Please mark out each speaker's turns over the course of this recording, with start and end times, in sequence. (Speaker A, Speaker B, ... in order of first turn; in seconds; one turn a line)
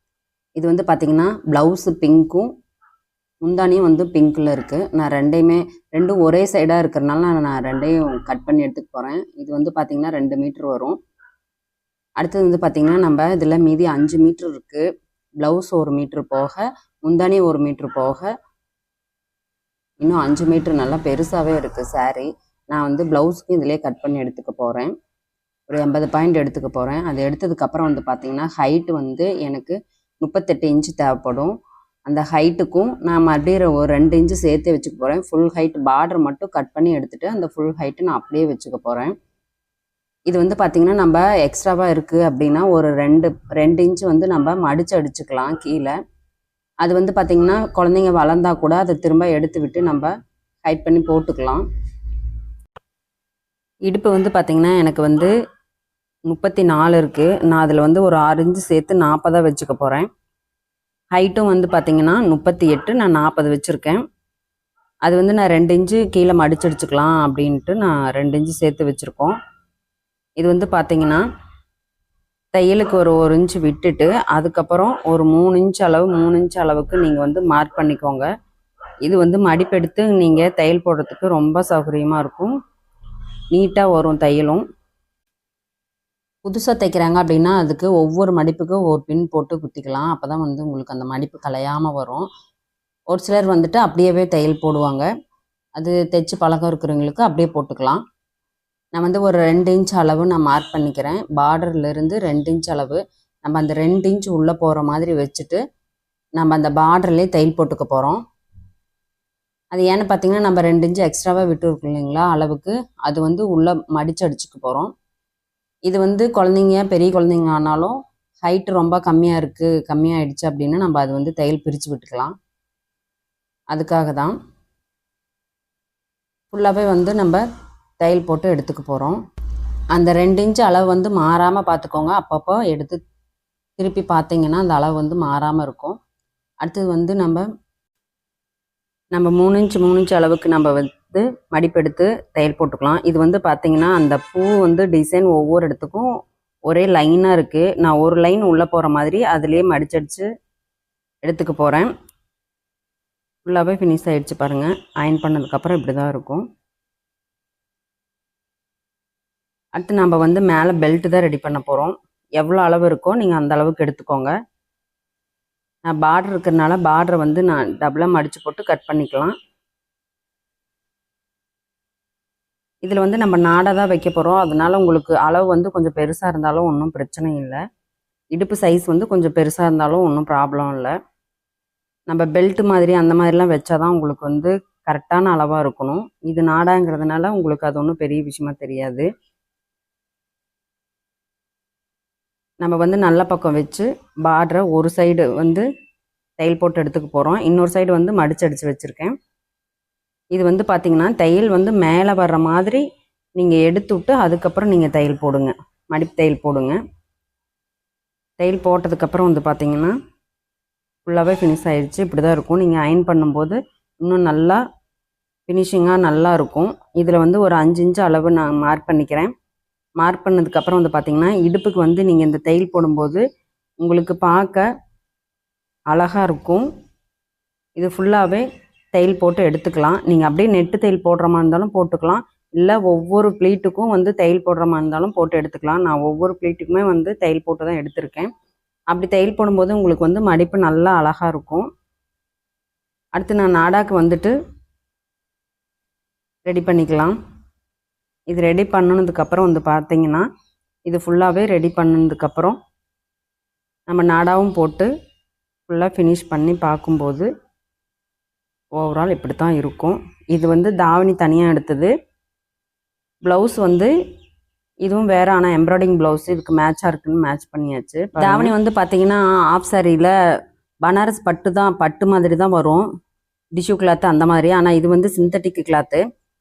Speaker A: 0.6-2.5
Speaker A: 3.4-11.0
Speaker A: 12.2-14.8
Speaker A: 15.4-18.3
Speaker A: 20.0-24.9
Speaker A: 25.7-31.5
Speaker A: 32.0-39.1
Speaker A: 40.3-45.9
Speaker A: 46.8-50.1
Speaker A: 50.6-51.6
Speaker A: 53.9-55.3
Speaker A: 56.3-60.1
Speaker A: 61.1-64.0
Speaker A: 65.0-69.3
Speaker A: 70.4-71.2
Speaker A: 72.5-78.3
Speaker A: 79.0-82.5
Speaker A: 83.5-84.6
Speaker A: 86.4-92.3
Speaker A: 93.1-95.1
Speaker A: 95.8-98.0
Speaker A: 98.9-105.6
Speaker A: 106.4-108.2
Speaker A: 109.7-114.9
Speaker A: 115.9-122.3
Speaker A: 123.7-124.3
Speaker A: 126.5-127.4
Speaker A: 128.0-129.2
Speaker A: 129.9-133.0
Speaker A: 133.8-136.0
Speaker A: 136.6-137.4
Speaker A: 139.1-146.1
Speaker A: 146.7-150.3
Speaker A: 151.2-151.9
Speaker A: 153.4-156.4
Speaker A: 159.8-164.3
Speaker A: 165.9-169.3
Speaker A: 172.8-177.6
Speaker A: 178.3-180.9
Speaker A: 182.1-189.1
Speaker A: 192.6-195.7
Speaker A: 196.4-199.1
Speaker A: 200.3-202.8
Speaker A: 203.4-206.8
Speaker A: 208.4-209.9
Speaker A: 211.1-214.6
Speaker A: 215.5-219.3
Speaker A: 220.0-223.2
Speaker A: 223.8-224.7
Speaker A: 225.9-226.6
Speaker A: 227.8-238.3
Speaker A: 238.9-241.7
Speaker A: 243.2-244.3
Speaker A: 246.4-247.1
Speaker A: 248.3-250.2
Speaker A: 250.9-252.6
Speaker A: 253.9-254.9
Speaker A: 255.7-257.3
Speaker A: 258.8-261.9
Speaker A: 263.2-263.9
Speaker A: 264.8-270.1
Speaker A: 270.8-272.9
Speaker A: 273.6-276.0